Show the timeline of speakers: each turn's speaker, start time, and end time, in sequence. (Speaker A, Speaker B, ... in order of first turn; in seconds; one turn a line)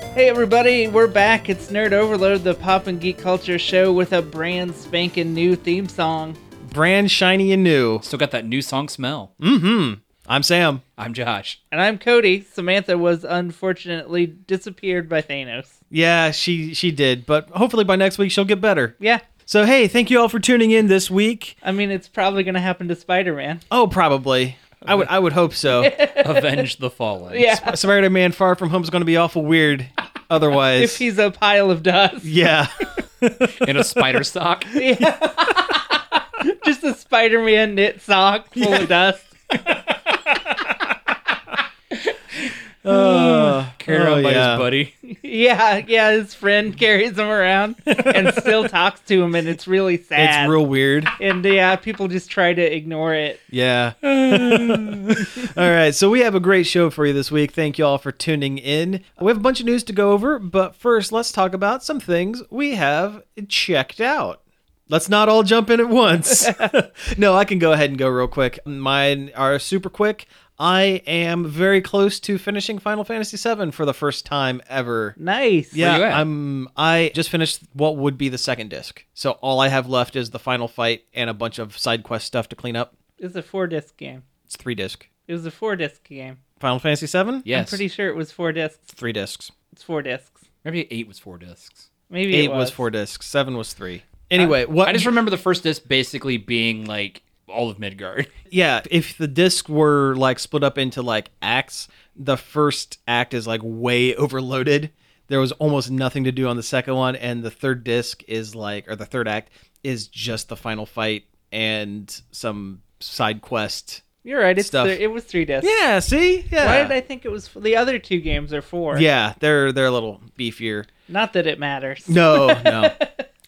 Speaker A: 0.1-6.4
Speaker B: 6.7-8.0
Speaker C: 8.0-9.3
Speaker B: 9.4-10.8
Speaker C: 11.0-11.6
Speaker A: 11.7-15.8
Speaker B: 15.9-18.9
Speaker B: 19.5-21.6
Speaker A: 21.6-23.6
Speaker B: 23.7-25.9
Speaker A: 25.7-26.6
Speaker C: 26.2-27.5
Speaker A: 27.3-27.8
Speaker B: 27.5-31.0
Speaker A: 30.8-32.3
Speaker B: 32.2-34.2
Speaker C: 33.6-34.8
Speaker A: 34.8-39.3
Speaker C: 39.5-40.6
Speaker C: 41.9-44.9
Speaker B: 42.9-44.6
Speaker A: 45.0-50.6
Speaker C: 47.9-48.5
Speaker B: 50.2-51.1
Speaker A: 51.2-53.4
Speaker B: 53.5-75.2
Speaker C: 54.0-55.2
Speaker A: 75.2-75.8
Speaker B: 75.7-82.9
Speaker C: 75.8-76.2
Speaker A: 83.2-84.2
Speaker B: 84.5-85.1
Speaker A: 85.3-86.4
Speaker B: 86.6-87.5
Speaker C: 87.5-87.8
Speaker A: 87.5-88.9
Speaker B: 88.9-89.5
Speaker A: 89.7-90.4
Speaker C: 90.6-91.9
Speaker A: 92.1-92.8
Speaker B: 92.3-95.1
Speaker C: 94.8-98.3
Speaker B: 98.5-114.0
Speaker A: 114.2-115.7
Speaker B: 114.6-115.0
Speaker B: 115.6-116.9
Speaker A: 116.6-119.1
Speaker B: 118.9-120.9
Speaker A: 121.1-123.3
Speaker B: 122.1-123.0